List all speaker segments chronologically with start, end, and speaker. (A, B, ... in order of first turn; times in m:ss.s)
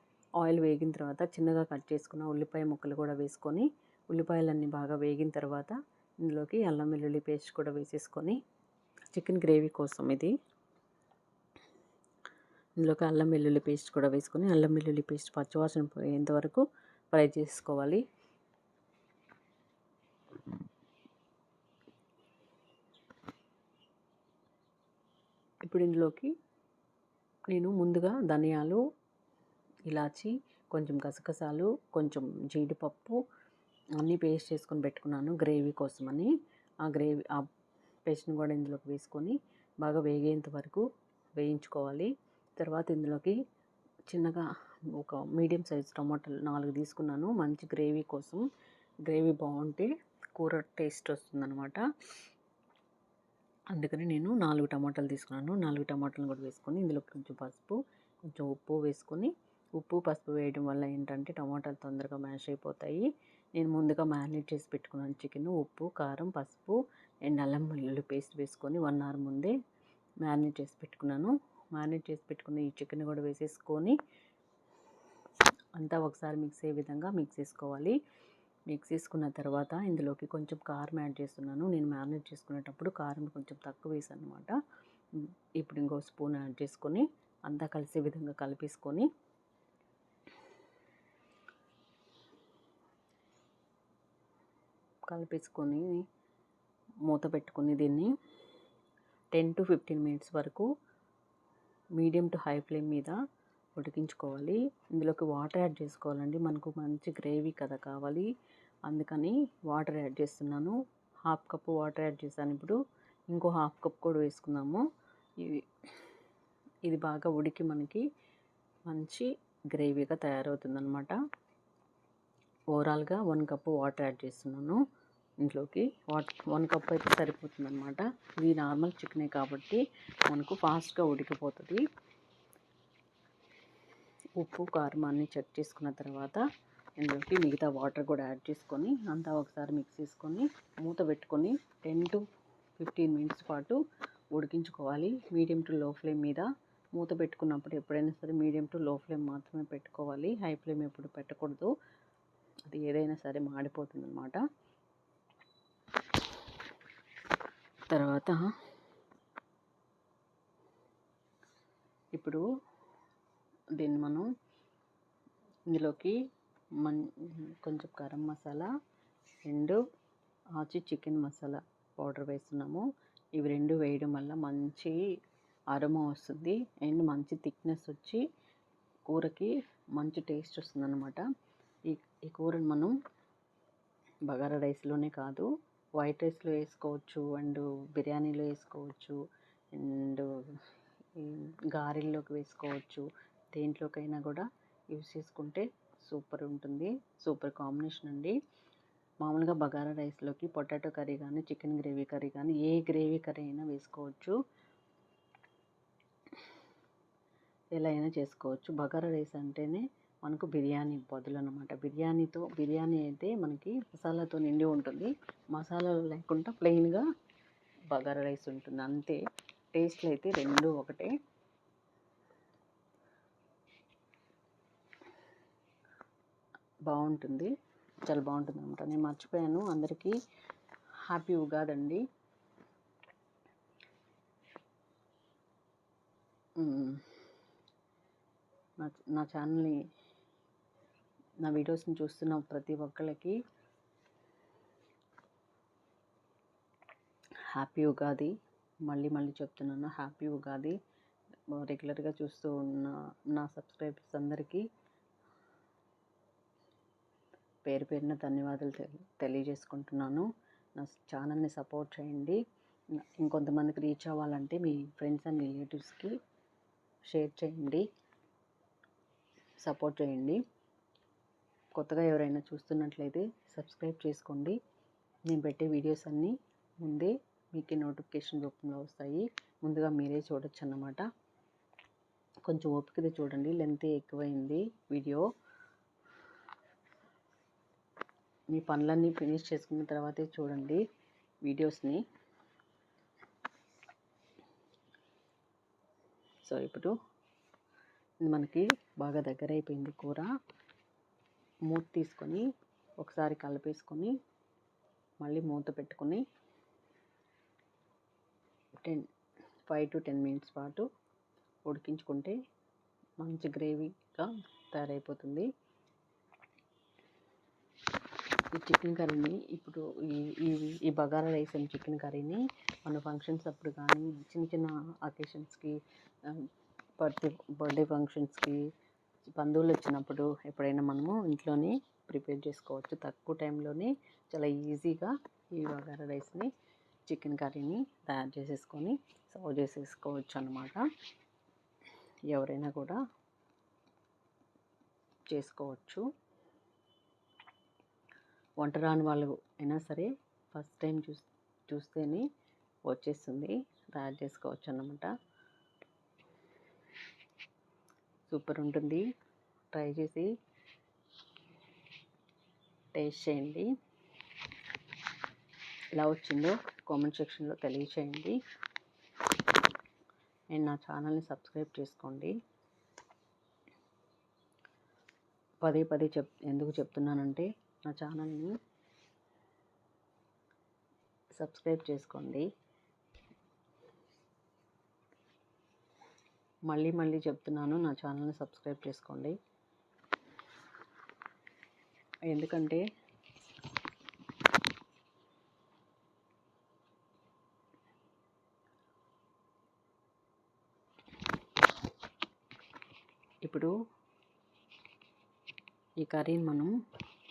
0:00.4-0:08.4 A
0:09.1-0:10.3 A
0:12.8-0:18.0 A
0:25.6-0:26.3 A
0:27.5-0:28.8 A
0:29.9-0:33.2 A
0:34.0-0:37.5 A
0:38.1-0:40.8 A
0:41.4-0:43.4 A
0:44.1-0:44.4 A
0:45.0-0:48.4 A
0:49.0-0:51.8 A
0:53.7-1:09.6 A
1:10.2-1:14.0 A
1:15.8-1:18.0 A
1:18.7-1:24.6 A
1:25.2-1:29.1 A
1:35.1-1:36.0 A
1:37.1-1:38.1 A
1:39.3-1:40.7 A
1:42.0-1:43.2 A
1:43.8-1:48.3 A
1:48.9-1:50.8 A
1:51.3-1:52.8 A
1:53.3-1:54.8 A
1:55.4-1:55.7 A
1:56.9-1:58.0 A
1:58.9-2:01.2 A
2:02.7-2:04.8 A
2:05.4-2:11.8 A
2:14.4-2:16.4 A
2:17.0-2:22.2 A
2:22.8-2:23.8 A
2:24.3-2:31.7 A
2:32.7-2:34.4 A
2:37.9-2:38.5 A
2:42.2-2:42.4 A
2:43.8-2:44.3 A
2:45.7-2:46.2 A
2:46.8-2:48.7 A
2:49.5-2:49.8 A
2:50.6-2:55.0 A
2:55.7-2:58.2 A
2:59.1-3:01.2 A
3:01.9-3:02.9 A
3:04.3-3:05.5 A
3:06.0-3:09.2 A
3:09.7-3:10.3 A
3:11.2-3:18.4 A
3:19.2-3:24.4 A
3:27.8-3:37.0 A
3:37.9-3:39.2 A
3:39.7-3:41.1 A
3:46.9-3:47.5 A
3:48.1-3:50.2 A
3:51.1-3:52.0 A
3:56.6-3:57.1 A
3:58.8-3:59.8 A
4:01.4-4:03.4 A
4:07.5-4:08.3 A
4:08.8-4:10.8 A
4:11.5-4:14.7 A
4:17.6-4:22.4 A
4:23.0-4:26.2 A
4:27.1-4:27.8 A
4:29.6-4:30.4 A
4:31.8-4:34.6 A
4:35.3-4:41.0 A
4:42.5-4:45.3 A
4:48.5-4:50.8 A
4:51.4-4:52.0 A
4:56.4-4:56.9 A
4:58.2-5:00.3 A
5:01.7-5:02.4 A
5:03.0-5:04.1 A
5:05.2-5:06.2 A
5:09.7-5:10.8 A
5:11.7-5:12.4 A
5:13.2-5:15.5 A
5:18.5-5:28.6 A
5:29.3-5:36.5 A
5:37.1-5:40.8 A
5:42.3-5:43.0 A
5:45.3-5:46.0 A
5:48.6-5:52.3 A
5:52.9-5:55.1 A
5:58.3-5:59.0 A
5:59.7-6:00.3 A
6:02.9-6:03.7 A
6:06.0-6:08.4 A
6:10.5-6:12.3 A
6:15.6-6:18.6 A
6:21.4-6:22.5 A
6:26.7-6:29.4 A
6:32.3-6:32.8 A
6:43.4-6:43.7 A
6:46.0-6:46.7 A